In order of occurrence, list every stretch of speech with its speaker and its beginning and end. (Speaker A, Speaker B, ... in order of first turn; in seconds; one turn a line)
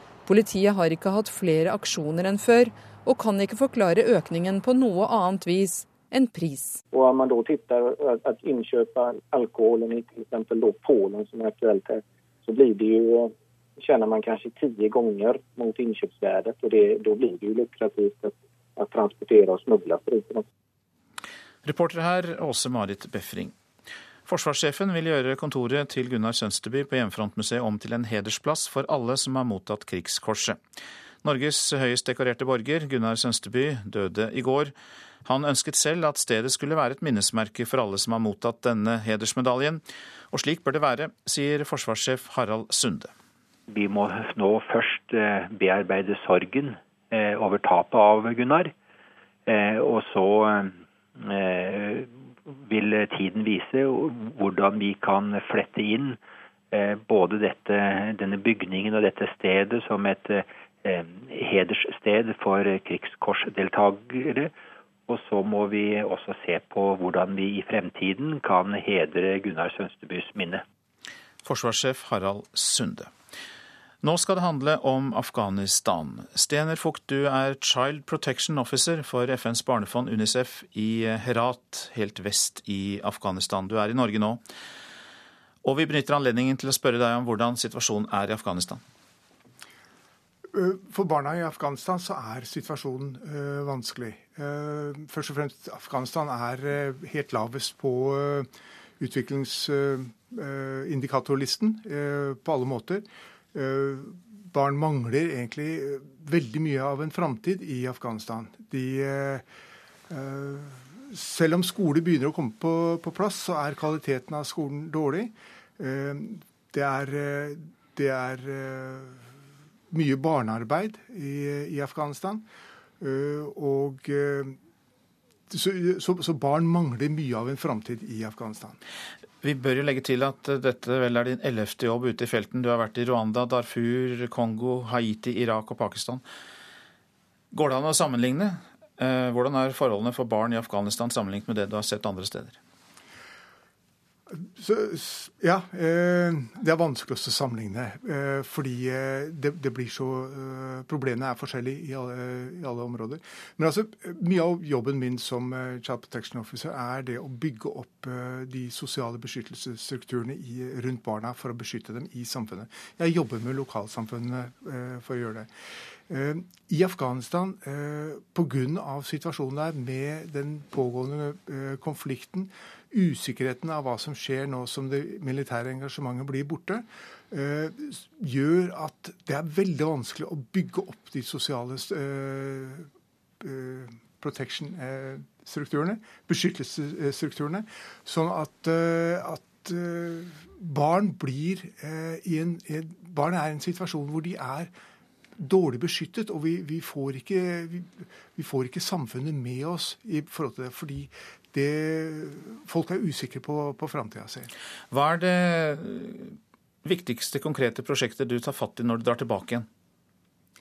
Speaker A: 0.3-6.8
Speaker B: 6.9-20.4
Speaker C: 21.6-23.6
Speaker C: 24.3-30.6
Speaker C: 31.2-34.7
Speaker C: 35.2-43.1
Speaker D: 43.7-48.7
Speaker D: 49.5-56.2
Speaker D: 56.7-64.5
Speaker D: 65.1-70.6
Speaker C: 71.5-73.1
Speaker C: 74.0-84.4
Speaker C: 85.6-88.8
Speaker E: 90.5-109.4
Speaker E: 110.1-119.2
Speaker E: 119.9-122.5
Speaker E: 123.0-124.6
Speaker E: 125.5-128.8
Speaker C: 129.4-136.2
Speaker C: 137.5-142.6
Speaker E: 144.4-165.5
Speaker E: 166.1-182.9
Speaker E: 183.4-194.7
Speaker E: 195.4-204.5
Speaker C: 204.9-209.7